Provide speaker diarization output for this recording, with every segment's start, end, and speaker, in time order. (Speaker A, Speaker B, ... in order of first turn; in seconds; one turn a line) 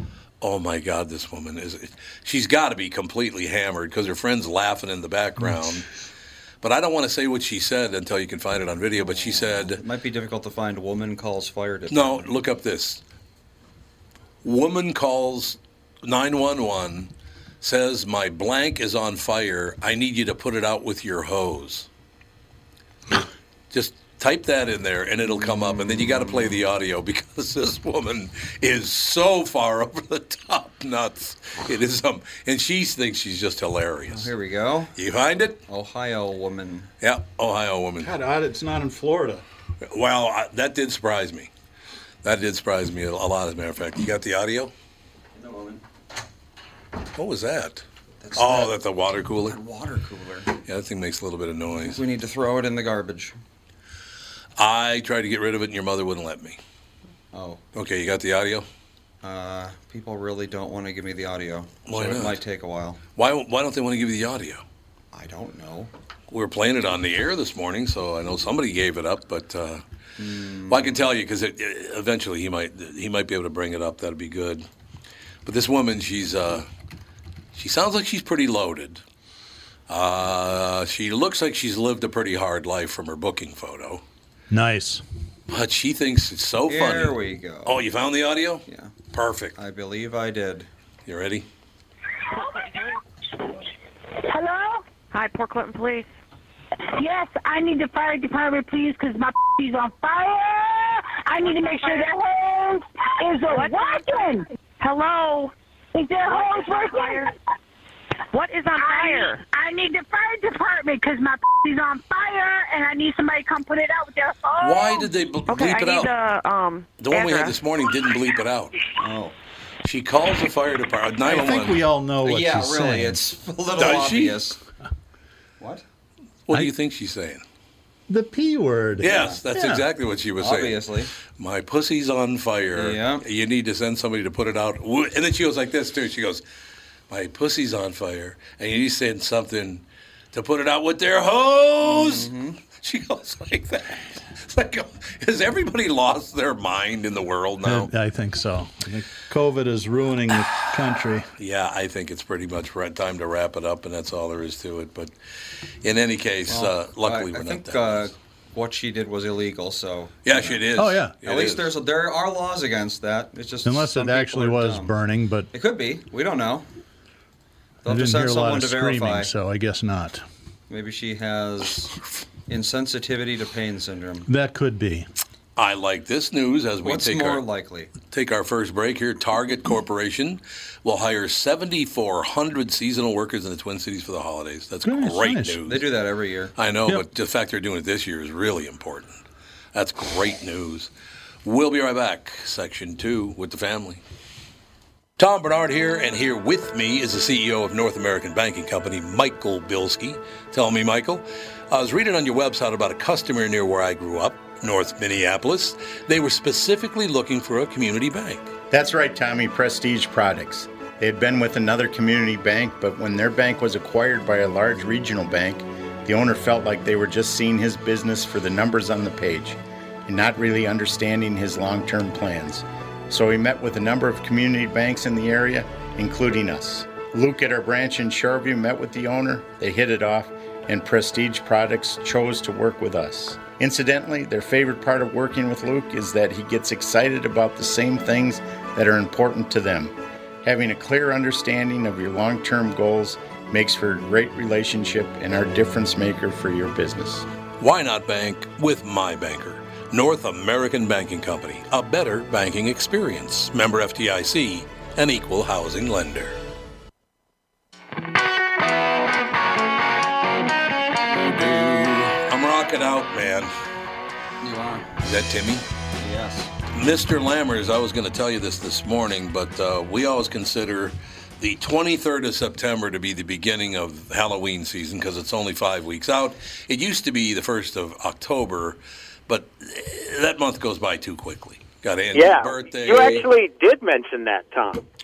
Speaker A: 0.4-5.9
Speaker A: 6.6-9.8
Speaker B: 9.1-12.3
Speaker A: 11.9-13.0
Speaker A: 14.4-21.9
Speaker A: 23.7-34.3
Speaker B: 34.1-34.9
Speaker A: 35.0-35.6
Speaker B: 35.7-36.9
Speaker A: 37.0-38.1
Speaker C: 38.0-39.4
Speaker A: 39.8-41.5
Speaker A: 42.2-44.7
Speaker B: 45.4-45.8
Speaker A: 47.1-47.8
Speaker B: 48.2-48.8
Speaker A: 48.4-49.6
Speaker B: 49.4-50.5
Speaker A: 50.7-52.0
Speaker B: 51.8-53.3
Speaker A: 54.6-56.6
Speaker B: 57.3-57.6
Speaker A: 57.7-58.7
Speaker B: 59.2-63.0
Speaker A: 61.9-62.4
Speaker A: 63.2-64.6
Speaker B: 65.1-65.9
Speaker A: 66.3-69.8
Speaker B: 70.2-70.9
Speaker A: 70.7-74.7
Speaker A: 75.5-76.7
Speaker A: 77.5-79.0
Speaker A: 79.9-84.0
Speaker C: 84.5-85.0
Speaker A: 85.5-89.6
Speaker B: 86.7-87.8
Speaker B: 88.7-88.9
Speaker B: 89.6-90.7
Speaker A: 91.1-91.5
Speaker D: 92.3-92.9
Speaker D: 94.2-94.8
Speaker E: 95.1-96.1
Speaker D: 96.8-104.5
Speaker E: 101.4-102.1
Speaker E: 103.5-104.2
Speaker E: 104.8-105.5
Speaker D: 106.0-107.3
Speaker E: 106.3-107.3
Speaker E: 108.3-109.4
Speaker D: 108.7-115.1
Speaker A: 114.6-116.1
Speaker E: 115.5-117.6
Speaker A: 117.0-118.8
Speaker B: 119.0-119.3
Speaker A: 119.8-121.8
Speaker C: 121.2-123.2
Speaker B: 122.2-124.6
Speaker A: 123.8-124.4
Speaker A: 126.5-127.4
Speaker C: 128.1-129.8
Speaker A: 129.0-136.4
Speaker B: 129.1-129.4
Speaker B: 130.4-131.1
Speaker B: 132.8-133.2
Speaker A: 137.1-147.9
Speaker B: 141.8-142.6
Speaker C: 147.7-151.3
Speaker A: 151.4-155.1
Speaker A: 155.8-158.1
Speaker B: 156.5-160.7
Speaker A: 160.2-161.7
Speaker C: 160.8-161.2
Speaker B: 161.2-164.9
Speaker C: 163.7-165.5
Speaker B: 165.5-166.7
Speaker B: 167.8-169.3
Speaker C: 167.9-170.2
Speaker B: 170.7-174.3
Speaker C: 174.3-175.1
Speaker A: 175.6-177.4
Speaker B: 176.8-177.9
Speaker A: 178.1-185.8
Speaker C: 184.8-185.6
Speaker B: 185.7-186.5
Speaker A: 186.6-189.2
Speaker A: 189.7-190.9
Speaker A: 191.4-194.0
Speaker A: 195.2-208.5
Speaker F: 208.7-247.3
Speaker A: 247.6-256.4
Speaker A: 261.2-263.5
Speaker B: 264.4-265.0
Speaker A: 265.0-265.7
Speaker B: 266.0-266.5
Speaker A: 266.7-283.3
Speaker G: 282.1-284.9